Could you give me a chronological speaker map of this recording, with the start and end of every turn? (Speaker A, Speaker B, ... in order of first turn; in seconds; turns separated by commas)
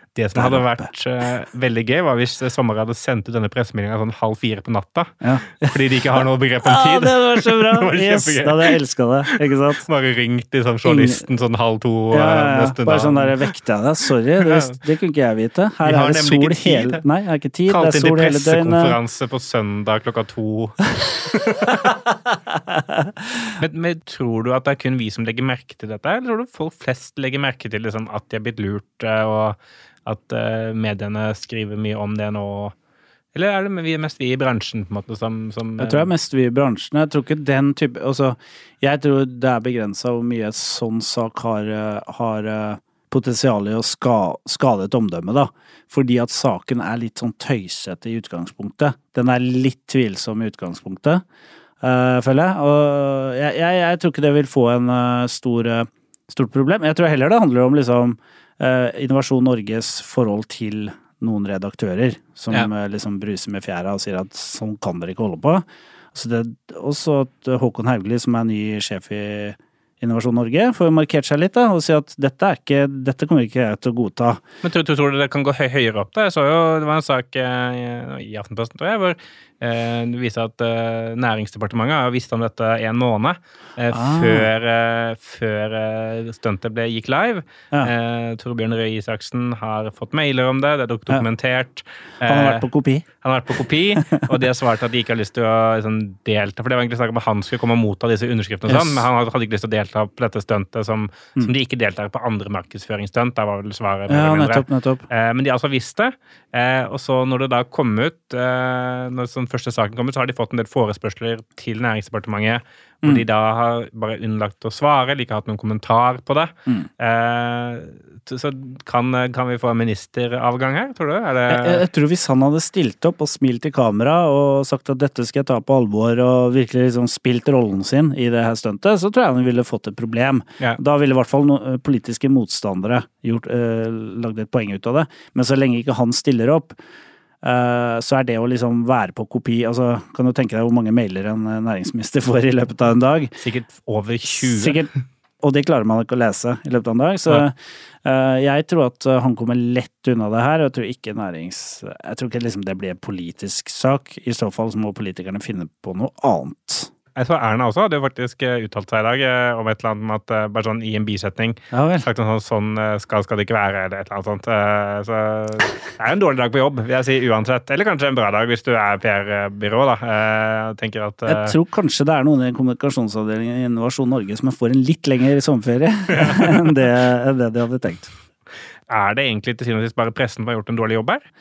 Speaker A: 0.1-8.8, Speaker B: 0.3-0.9, Speaker B: 5.2-9.9, Speaker A: 9.3-13.5, Speaker B: 10.8-11.2, Speaker B: 12.1-19.0, Speaker A: 14.4-14.8, Speaker A: 15.8-17.0, Speaker A: 17.7-21.7, Speaker B: 22.7-23.1, Speaker A: 23.6-32.7, Speaker A: 33.3-36.1, Speaker B: 35.8-51.2, Speaker B: 51.8-74.4, Speaker A: 74.6-92.7, Speaker B: 83.9-84.5, Speaker B: 92.2-93.0, Speaker A: 93.2-121.8, Speaker B: 98.7-99.1, Speaker B: 104.1-105.0, Speaker B: 121.5-136.8, Speaker B: 137.4-143.3, Speaker A: 143.4-144.8, Speaker B: 144.3-156.9, Speaker A: 157.2-171.6, Speaker B: 161.7-162.1, Speaker B: 171.3-178.1, Speaker A: 176.1-176.5, Speaker A: 178.9-181.2